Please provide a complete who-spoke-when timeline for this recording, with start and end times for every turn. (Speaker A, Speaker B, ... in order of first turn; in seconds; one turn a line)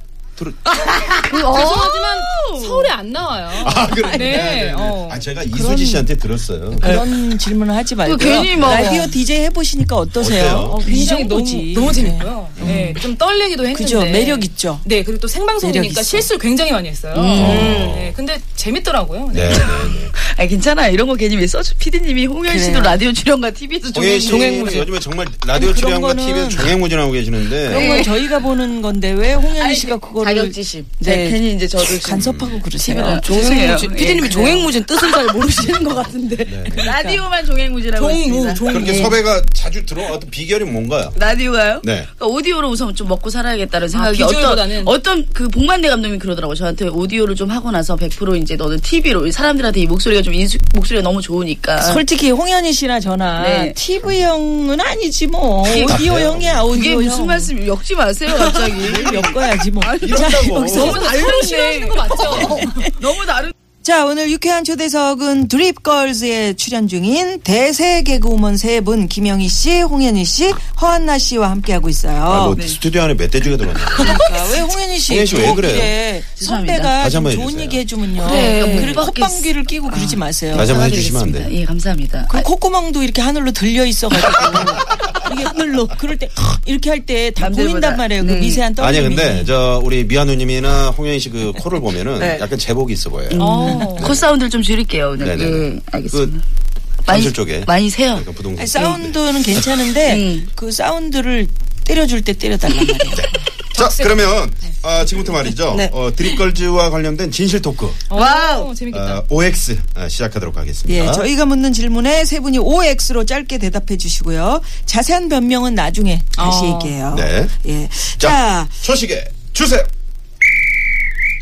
Speaker A: 0.4-0.9
Speaker B: 0.7-2.9
Speaker C: 1.2-1.9
Speaker D: 1.4-5.2
Speaker A: 3.5-7.0
Speaker E: 5.5-6.1
Speaker E: 6.7-13.0
Speaker C: 8.0-9.2
Speaker A: 8.4-8.9
Speaker A: 10.1-10.8
Speaker D: 10.7-19.8
Speaker E: 13.7-14.9
Speaker E: 15.6-16.3
Speaker C: 17.1-17.9
Speaker B: 17.4-18.0
Speaker E: 17.4-17.8
Speaker A: 17.4-18.2
Speaker A: 19.3-20.1
Speaker C: 19.8-24.7
Speaker E: 22.5-23.0
Speaker A: 23.9-27.9
Speaker B: 24.2-24.9
Speaker E: 25.5-26.8
Speaker E: 27.6-33.3
Speaker C: 27.7-28.1
Speaker B: 27.8-28.1
Speaker C: 29.6-30.5
Speaker B: 30.3-31.3
Speaker C: 31.0-35.4
Speaker A: 32.2-32.6
Speaker B: 33.1-36.6
Speaker A: 36.5-36.9
Speaker E: 36.6-37.2
Speaker C: 36.7-39.1
Speaker D: 38.0-39.2
Speaker A: 38.7-41.2
Speaker C: 41.1-52.0
Speaker A: 41.8-42.1
Speaker D: 43.9-45.0
Speaker E: 51.8-57.5
Speaker C: 53.4-53.8
Speaker C: 55.6-56.0
Speaker A: 55.9-56.6
Speaker C: 56.7-60.3
Speaker E: 58.3-61.2
Speaker A: 58.8-59.2
Speaker A: 60.0-61.1
Speaker D: 60.7-62.8
Speaker C: 61.1-63.5
Speaker E: 62.2-62.8
Speaker E: 63.8-72.6
Speaker A: 72.2-74.3
Speaker E: 74.0-80.7
Speaker A: 75.1-76.0
Speaker C: 76.3-76.9
Speaker A: 77.0-77.9
Speaker C: 78.2-79.5
Speaker B: 78.2-79.0
Speaker B: 79.9-80.2
Speaker A: 80.5-81.5
Speaker C: 80.5-82.5
Speaker E: 82.3-89.5
Speaker C: 87.4-88.6
Speaker A: 88.8-93.4
Speaker C: 93.3-96.4
Speaker D: 93.4-94.2
Speaker E: 93.4-94.0
Speaker A: 94.0-94.3
Speaker A: 95.2-96.3
Speaker C: 97.0-98.3
Speaker A: 97.1-99.7
Speaker E: 98.6-103.3
Speaker C: 100.0-100.5
Speaker A: 103.1-108.0
Speaker D: 103.7-104.5
Speaker B: 105.7-106.3
Speaker D: 108.1-109.2
Speaker B: 108.1-108.7
Speaker A: 108.9-111.3
Speaker E: 110.9-118.8
Speaker D: 116.4-117.0
Speaker A: 117.1-117.5
Speaker A: 118.2-119.9